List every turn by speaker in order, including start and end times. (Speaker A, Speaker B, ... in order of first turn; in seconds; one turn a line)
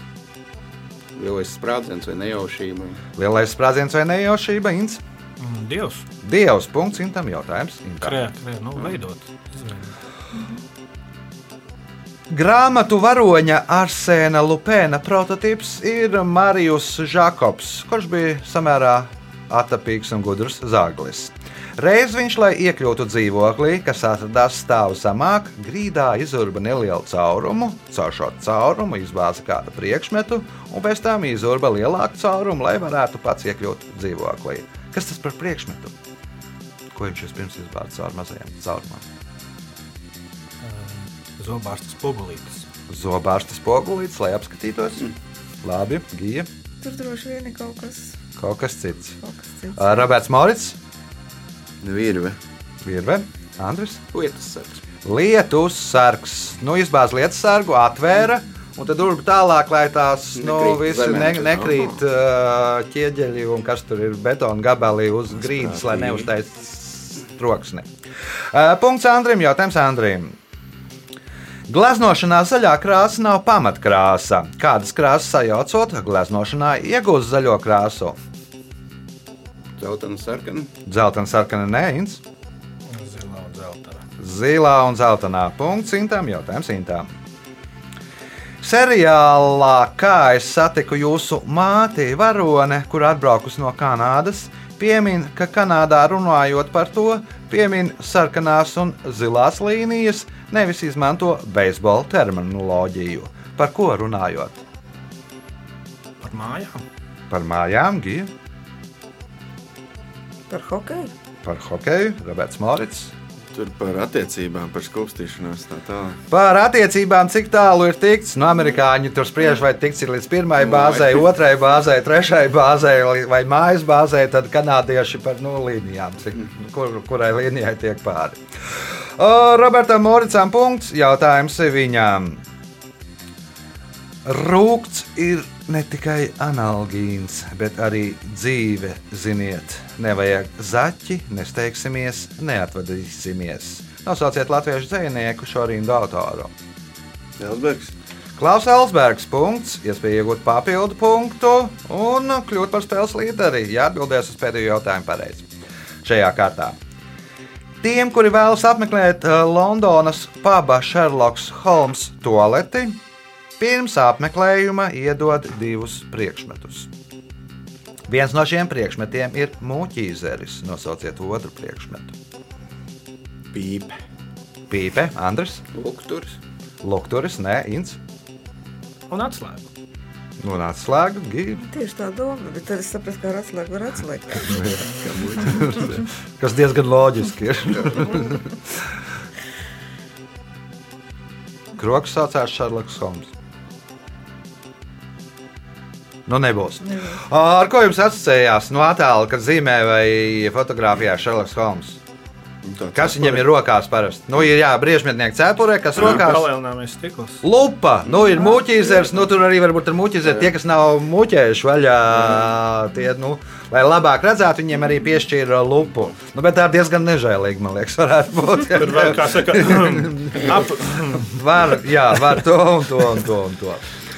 Speaker A: 1.1-3.0
Speaker B: 3.2-5.0
Speaker C: 5.4-6.0
Speaker B: 6.2-8.2
Speaker C: 8.0-9.9
Speaker B: 12.3-35.9
Speaker B: 36.9-39.0
Speaker C: 40.6-42.6
Speaker B: 42.9-45.1
Speaker B: 45.6-46.5
Speaker D: 46.8-48.2
Speaker B: 48.4-49.2
Speaker D: 49.2-50.1
Speaker B: 49.8-50.8
Speaker E: 51.8-52.4
Speaker B: 52.8-54.0
Speaker A: 54.1-54.8
Speaker B: 55.0-67.9
Speaker A: 60.4-61.7
Speaker E: 65.4-66.3
Speaker B: 68.5-70.3
Speaker B: 71.7-78.2
Speaker A: 79.8-80.7
Speaker B: 80.8-82.2
Speaker C: 82.9-84.0
Speaker B: 84.2-87.1
Speaker B: 88.6-104.6
Speaker C: 106.2-106.8
Speaker B: 107.3-108.3
Speaker D: 110.5-111.1
Speaker B: 111.4-113.1
Speaker E: 113.5-116.2
Speaker B: 116.3-132.4
Speaker A: 120.6-121.2
Speaker B: 134.2-146.5
Speaker E: 147.4-147.9
Speaker B: 148.4-155.5
Speaker B: 156.0-156.8
Speaker B: 157.8-163.0
Speaker B: 163.6-166.9
Speaker B: 168.1-172.1
Speaker E: 173.6-173.9
Speaker B: 174.7-175.6
Speaker A: 175.7-176.4
Speaker B: 176.8-178.0
Speaker C: 179.1-179.7
Speaker B: 180.4-181.6
Speaker D: 181.6-184.6
Speaker B: 184.4-188.6
Speaker B: 191.8-193.3
Speaker B: 196.3-202.0
Speaker D: 196.8-197.2
Speaker E: 202.6-203.5
Speaker B: 202.9-206.4
Speaker C: 205.9-207.4
Speaker B: 207.4-223.9
Speaker C: 218.7-221.3